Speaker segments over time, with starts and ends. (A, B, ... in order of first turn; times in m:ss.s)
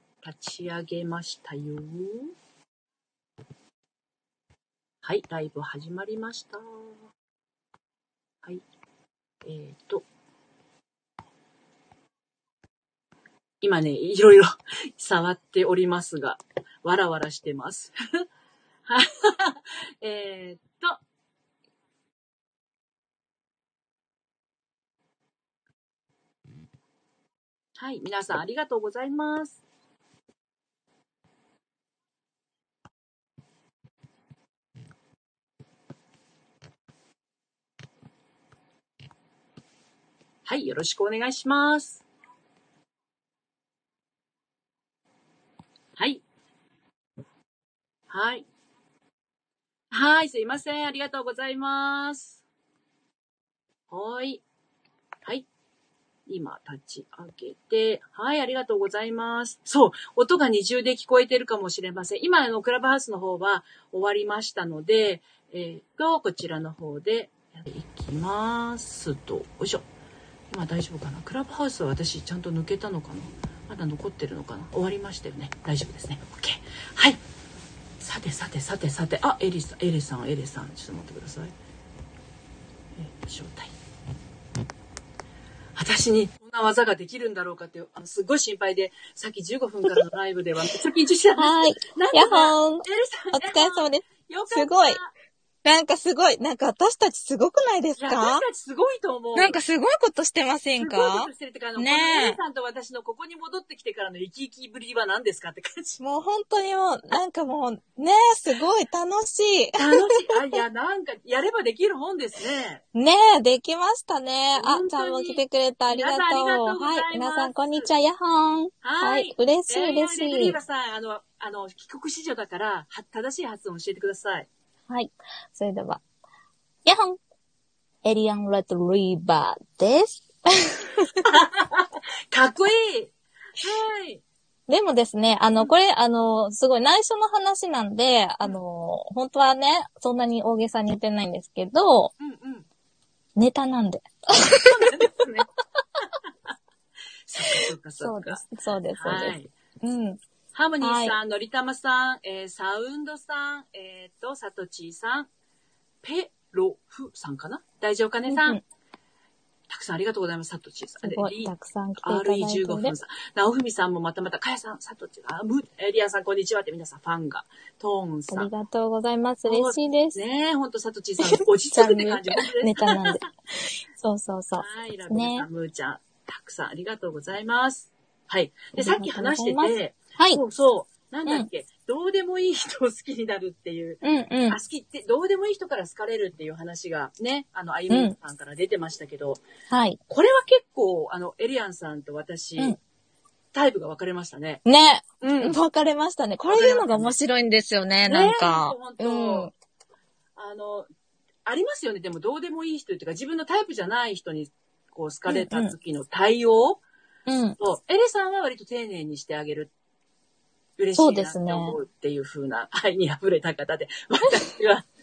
0:00.2-0:02.3 A
0:05.0-0:06.9 A
0:09.4-0:10.0 A
0:13.6-0:17.9 A
0:18.9-0:21.0 A
0:27.8-0:29.6 A
0:40.5-0:42.0 A
0:46.0-0:46.2 A
0:48.1-0:48.5 A
0:49.9-0:52.4 A
0:53.9-0:54.4 A
0:56.3-1:09.8 A
1:10.5-1:17.2 A
1:18.0-1:21.5 A
1:23.0-1:23.7 A
1:25.8-1:35.1 A
1:31.4-1:35.0 B
1:35.6-1:38.4 B
1:38.0-1:39.6 A
1:39.4-1:42.4 B
1:40.8-1:46.0 A
1:46.0-1:50.1 B
1:49.8-1:52.8 A
1:52.9-2:00.6 B
1:54.6-1:57.9 A
1:58.8-2:04.5 A
2:04.9-2:06.0 B
2:06.8-2:07.2 B
2:08.0-2:11.3 B
2:11.2-2:14.2 A
2:14.7-2:22.1 B
2:22.2-2:22.7 A
2:23.4-2:24.7 B
2:24.6-2:25.5 A
2:27.3-2:29.5 A
2:27.5-2:30.2 B
2:30.5-2:35.3 A
2:30.8-2:31.2 B
2:36.0-2:38.6 A
2:38.3-2:38.6 B
2:39.7-2:48.5 A
2:41.0-2:43.0 B
2:48.3-2:50.2 B
2:49.4-2:53.2 A
2:51.7-2:55.5 B
2:54.6-3:09.4 A
2:58.8-3:00.4 B
3:04.0-3:04.6 B
3:09.7-3:10.0 B
3:10.1-3:12.8 A
3:13.5-3:14.6 A
3:14.6-3:19.5 B
3:15.2-3:15.6 A
3:16.5-3:17.2 A
3:18.1-3:19.5 A
3:20.4-3:20.9 A
3:21.5-3:26.8 A
3:25.3-3:25.7 B
3:27.3-3:27.6 B
3:27.6-3:29.7 A
3:30.8-3:34.9 A
3:31.0-3:31.8 B